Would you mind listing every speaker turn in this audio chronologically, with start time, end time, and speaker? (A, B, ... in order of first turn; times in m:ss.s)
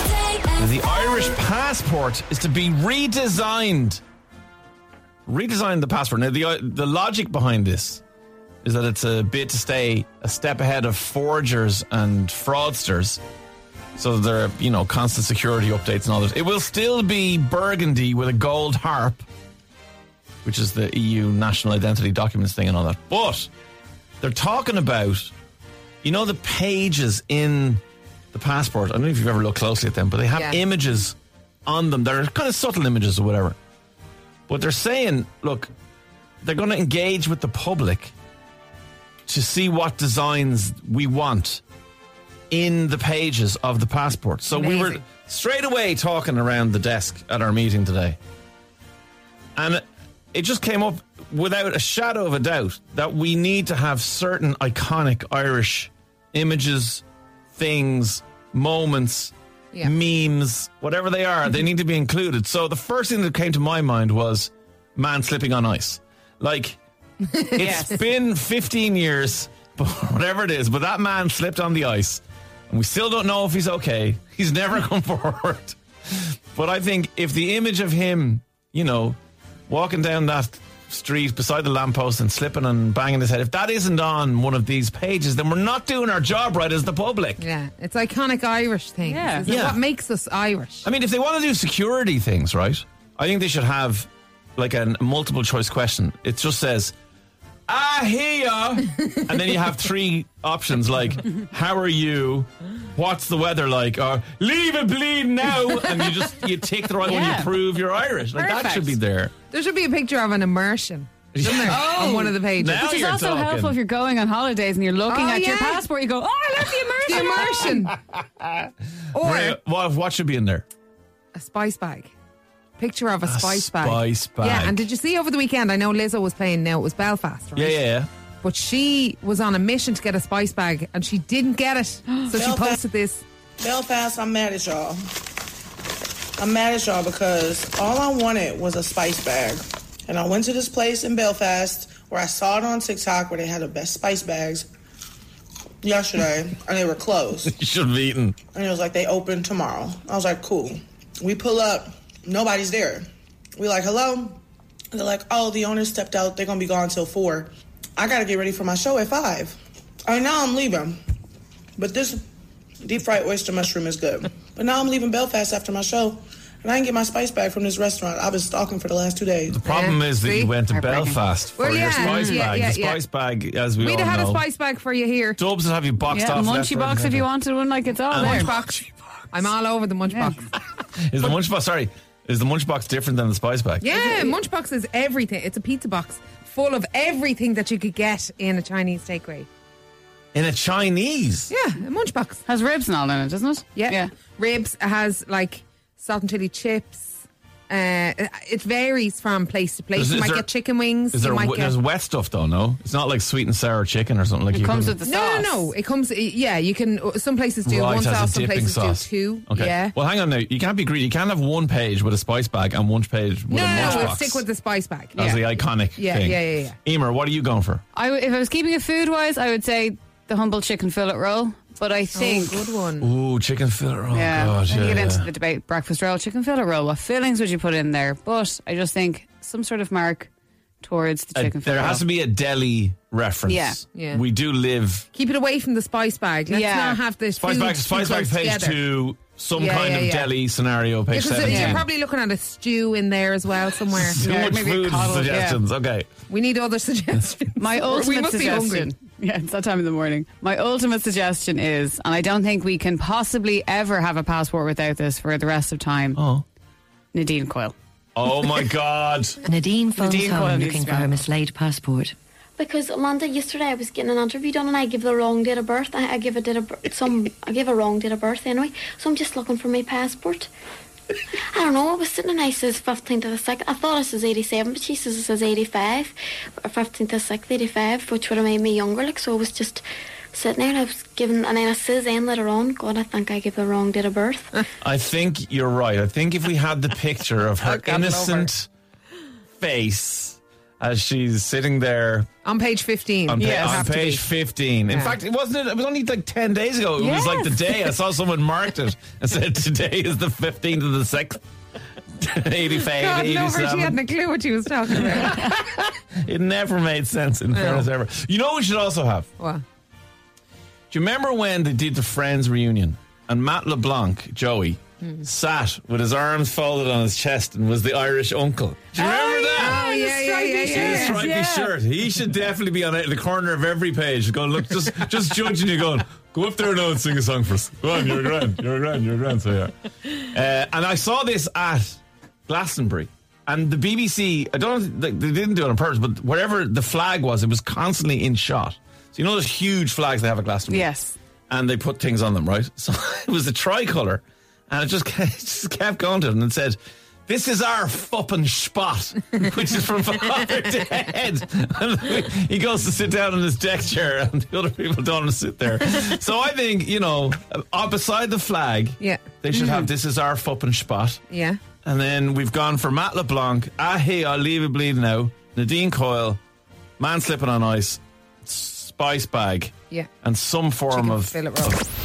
0:00.6-0:04.0 A
0:05.3-0:08.0 A
0:08.6-0:13.2 A
0:14.0-0:19.2 A
0:20.4-0:23.5 A
0:24.2-0:25.3 A
0:26.0-0:27.8 A
0:28.3-0:33.6 A
0:30.3-0:30.6 B
0:34.5-0:35.7 A
0:36.4-0:38.1 A
0:39.3-0:41.6 A
0:42.5-0:48.2 A
0:44.5-0:45.0 B
0:49.6-0:49.8 A
0:50.3-1:06.8 A
1:07.5-1:15.8 A
1:07.6-1:08.0 C
1:16.5-1:19.2 A
1:19.7-1:27.4 A
1:27.4-1:30.8 B
1:29.0-1:29.5 C
1:29.5-1:29.8 A
1:30.8-1:36.9 A
1:37.7-1:49.3 A
1:47.0-1:47.5 C
1:48.3-1:49.0 B
1:49.5-1:52.9 B
1:51.3-1:53.8 A
1:51.7-1:57.7 C
1:55.1-1:55.8 B
1:56.6-1:57.9 B
1:57.4-1:57.7 A
1:59.1-1:59.6 B
1:59.2-2:00.6 A
2:01.3-2:02.1 B
2:02.8-2:07.8 B
2:03.2-2:04.8 A
2:07.6-2:08.1 A
2:08.4-2:13.2 B
2:12.3-2:12.8 D
2:13.6-2:15.0 D
2:16.4-2:24.7 D
2:25.8-2:27.5 D
2:27.4-2:28.4 A
2:28.5-2:34.4 D
2:34.9-2:41.0 D
2:41.8-2:42.2 D
2:42.8-2:49.6 D
2:49.5-2:54.4 A
2:49.6-2:50.5 B
2:50.7-2:51.2 C
2:51.6-2:53.0 B
2:52.0-2:52.5 C
2:53.8-2:55.4 B
2:55.4-2:57.3 A
2:56.1-2:58.5 C
2:58.1-2:59.5 A
2:58.2-2:58.8 B
2:59.3-3:00.5 B
3:00.1-3:00.4 C
3:00.8-3:03.9 A
3:03.8-3:09.5 B
3:10.3-3:11.5 A
3:11.5-3:12.4 B
3:12.4-3:14.1 C
3:13.7-3:17.1 B
3:17.7-3:21.8 B
3:19.9-3:20.5 A
3:21.1-3:24.9 A
3:24.5-3:25.7 C
3:25.0-3:29.9 B
3:27.6-3:34.4 A
3:33.5-3:35.3 B
3:33.6-3:34.1 C
3:35.1-3:35.4 C
3:35.1-3:37.8 A
3:35.9-3:36.8 B
3:37.9-3:42.8 C
3:42.1-3:43.1 B
3:43.0-3:45.3 A
3:44.1-3:50.3 C
3:50.8-3:52.0 C
3:51.4-3:55.1 A
3:53.4-3:53.8 C
3:53.9-3:54.2 B
3:55.1-3:58.8 B
3:56.5-3:57.0 C
3:57.4-4:01.9 A
3:59.5-4:00.3 B
4:01.1-4:04.2 B
4:01.4-4:01.8 C
4:03.9-4:06.1 A
4:04.2-4:05.6 C
4:06.3-4:08.9 B
4:07.6-4:16.2 C
4:16.2-4:16.4 A
4:17.1-4:17.7 C
4:18.1-4:19.4 A
4:19.4-4:22.1 E
4:20.0-4:21.2 C
4:22.6-4:30.5 F
4:31.5-4:44.6 F
4:44.8-4:48.7 A
4:47.6-4:48.5 B
4:49.6-4:52.3 A
4:52.4-4:54.2 B
4:53.3-5:01.4 A
4:53.4-4:53.8 C
4:57.0-4:57.8 C
5:02.2-5:04.0 A
5:02.9-5:05.5 B
5:04.9-5:09.3 A
5:07.5-5:07.9 B
5:10.9-5:19.8 A
5:18.9-5:21.7 C
5:19.6-5:21.2 B
5:20.6-5:40.9 A
5:40.7-5:41.2 C
5:41.5-6:01.2 A
5:59.0-5:59.2 B
6:01.3-6:01.6 B
6:01.8-6:06.4 A
6:07.0-6:11.8 A
6:10.9-6:11.8 B